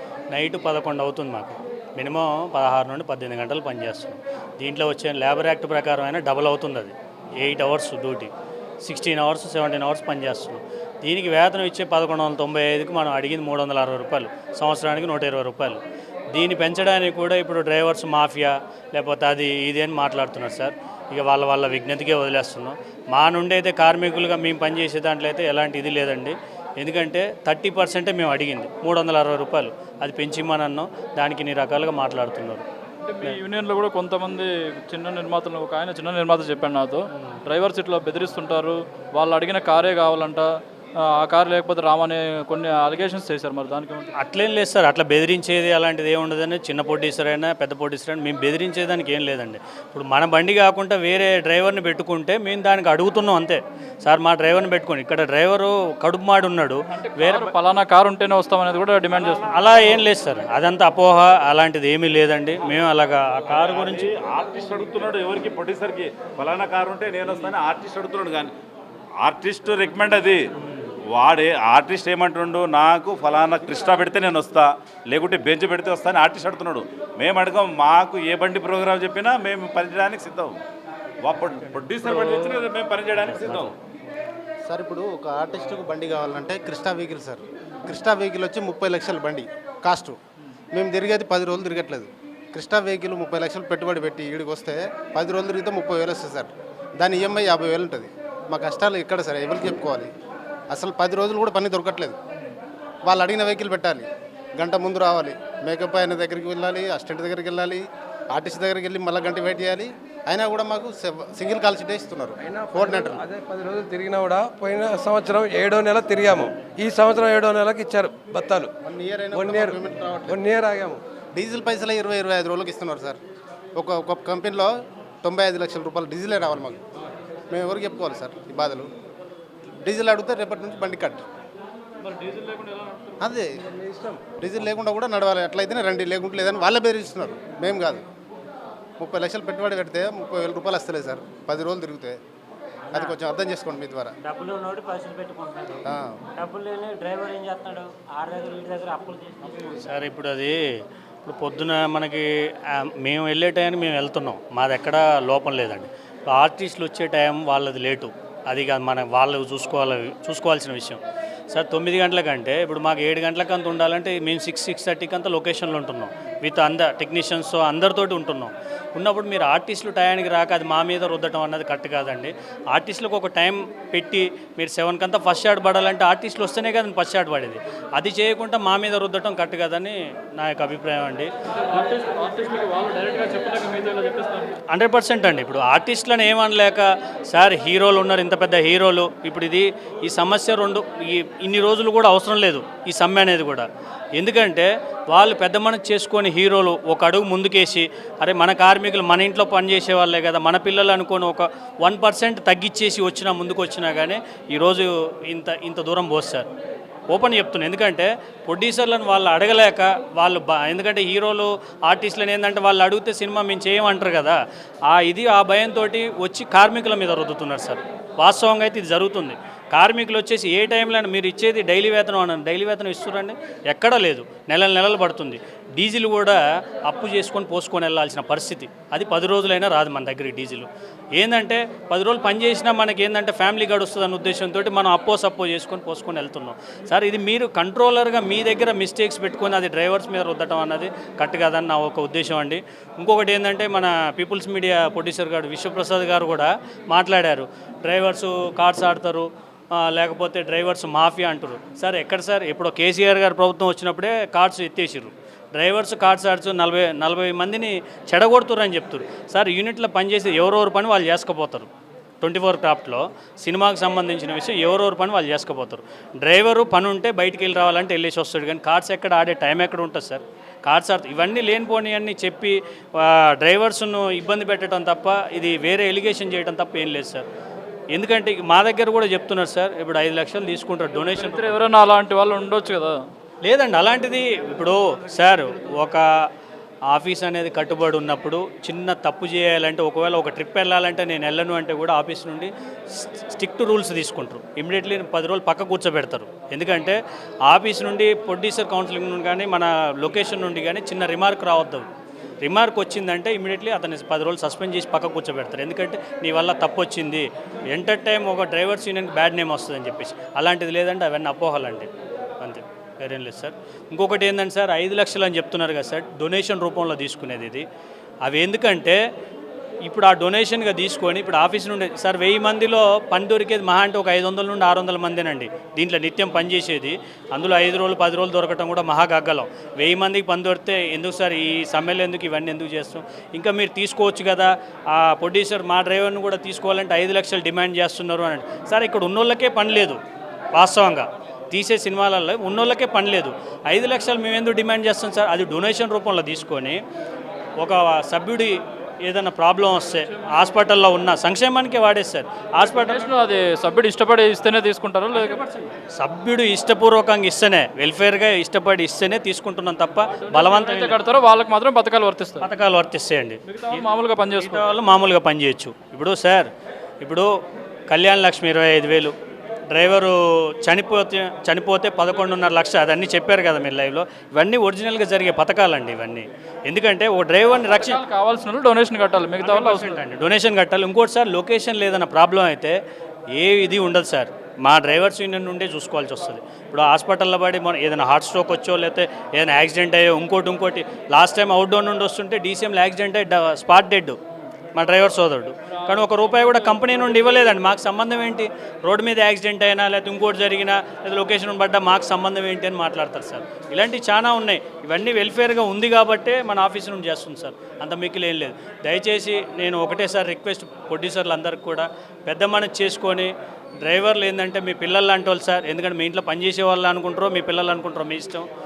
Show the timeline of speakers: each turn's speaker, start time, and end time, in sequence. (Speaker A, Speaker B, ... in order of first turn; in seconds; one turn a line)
Speaker A: 0.3-8.3
Speaker A: 8.8-15.8
Speaker A: 16.3-32.6
Speaker B: 33.0-44.1
Speaker A: 44.1-57.5
Speaker B: 57.0-59.5
Speaker C: 59.2-60.0
Speaker A: 59.5-64.1
Speaker C: 63.5-68.5
Speaker C: 69.2-70.5
Speaker C: 71.1-80.6
Speaker C: 81.2-83.7
Speaker B: 82.0-82.6
Speaker D: 84.7-90.2
Speaker D: 90.7-100.1
Speaker D: 100.7-102.2
Speaker D: 103.0-113.2
Speaker E: 112.4-118.7
Speaker D: 118.8-120.4
Speaker E: 119.3-121.0
Speaker D: 121.3-123.2
Speaker D: 123.8-126.8
Speaker D: 127.5-128.9
Speaker D: 129.8-131.2
Speaker B: 132.0-133.2
Speaker D: 133.2-138.0
Speaker D: 139.0-142.2
Speaker D: 142.9-144.2
Speaker F: 144.2-145.8
Speaker D: 145.9-146.2
Speaker F: 146.3-149.8
Speaker A: 149.8-150.6
Speaker A: 151.2-181.3
Speaker B: 181.7-184.5
Speaker A: 184.7-206.5
Speaker A: 207.1-261.7
Speaker A: 262.2-277.3
Speaker A: 277.9-281.6
Speaker B: 280.9-283.0
Speaker A: 283.4-286.1
Speaker A: 286.9-301.9
Speaker A: 302.4-311.9
Speaker A: 312.4-317.6
Speaker A: 318.2-319.0
Speaker A: 319.8-340.0
Speaker A: 340.6-346.8
Speaker A: 347.6-353.1
Speaker B: 352.6-355.4
Speaker A: 355.1-361.0
Speaker B: 360.1-362.5
Speaker A: 362.4-366.5
Speaker B: 363.5-364.6
Speaker A: 367.0-367.3
Speaker A: 367.9-369.1
Speaker A: 369.7-378.0
Speaker B: 377.7-380.0
Speaker A: 379.4-382.8
Speaker A: 383.3-394.2
Speaker A: 394.8-418.5
Speaker B: 395.7-397.5